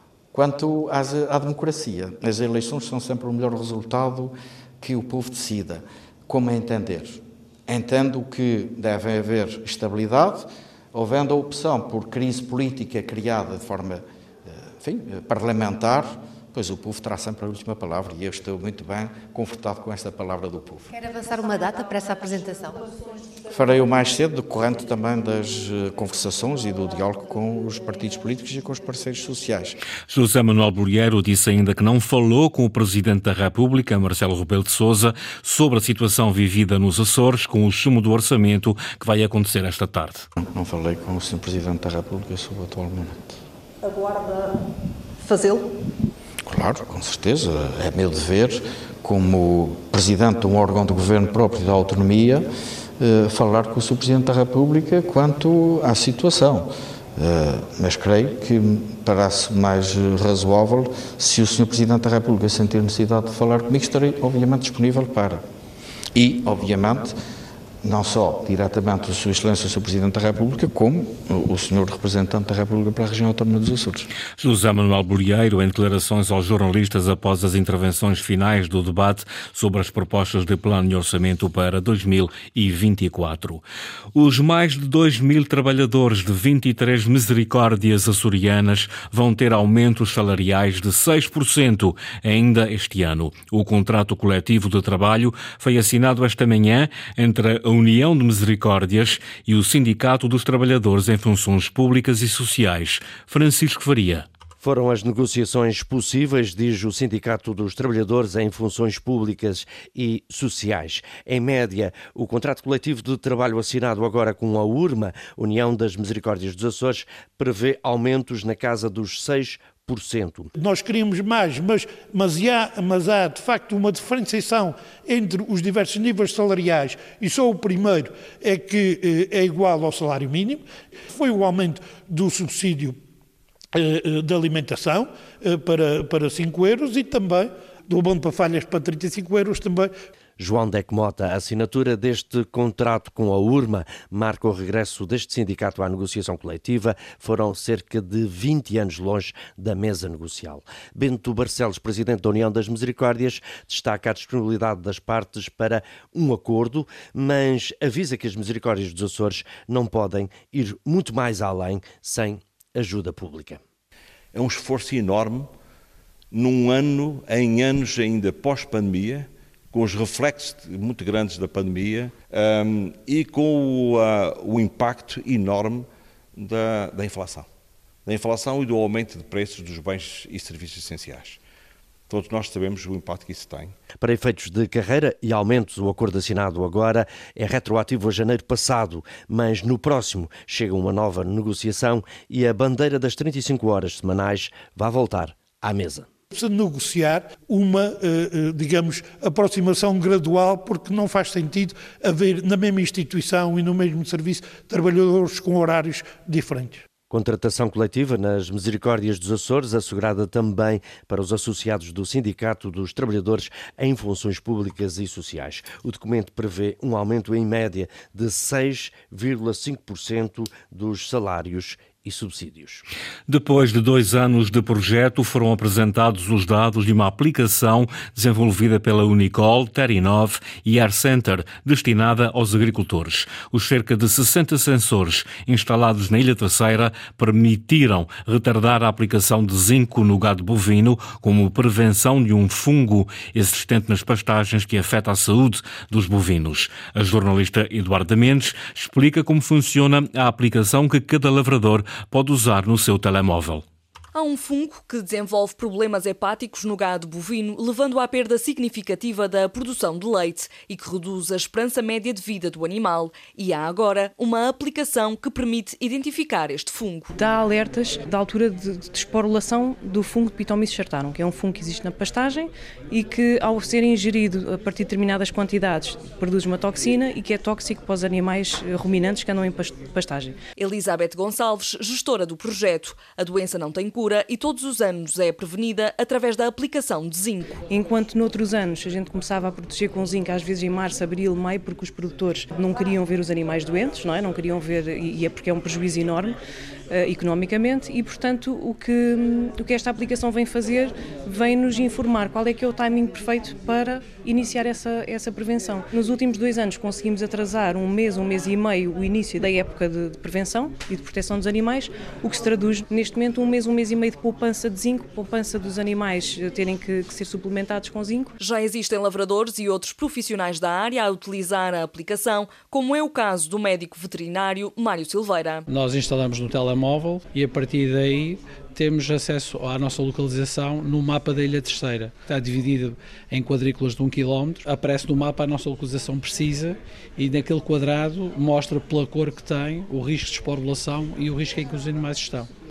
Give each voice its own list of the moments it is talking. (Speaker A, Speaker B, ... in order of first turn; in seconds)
Speaker A: 0.3-20.9, 23.5-29.8, 40.4-43.4, 46.4-52.5, 53.0-65.4, 66.1-67.2, 67.8-74.1
Speaker B: 20.9-22.8, 43.8-44.7, 45.2-45.8
Speaker C: 30.1-40.3, 74.4-83.6, 84.1-104.3, 223.3-253.6
Speaker D: 104.6-120.5, 140.4-163.6, 184.0-196.1, 207.1-222.8
Speaker E: 120.5-133.0, 133.7-139.9, 196.3-206.8
Speaker F: 164.3-165.5, 166.3-177.5, 178.0-181.4, 182.1-183.7
Speaker G: 254.1-267.1, 280.6-287.6, 318.4-325.6
Speaker H: 267.2-280.4, 287.7-296.4, 296.9-318.3
Speaker I: 325.7-342.5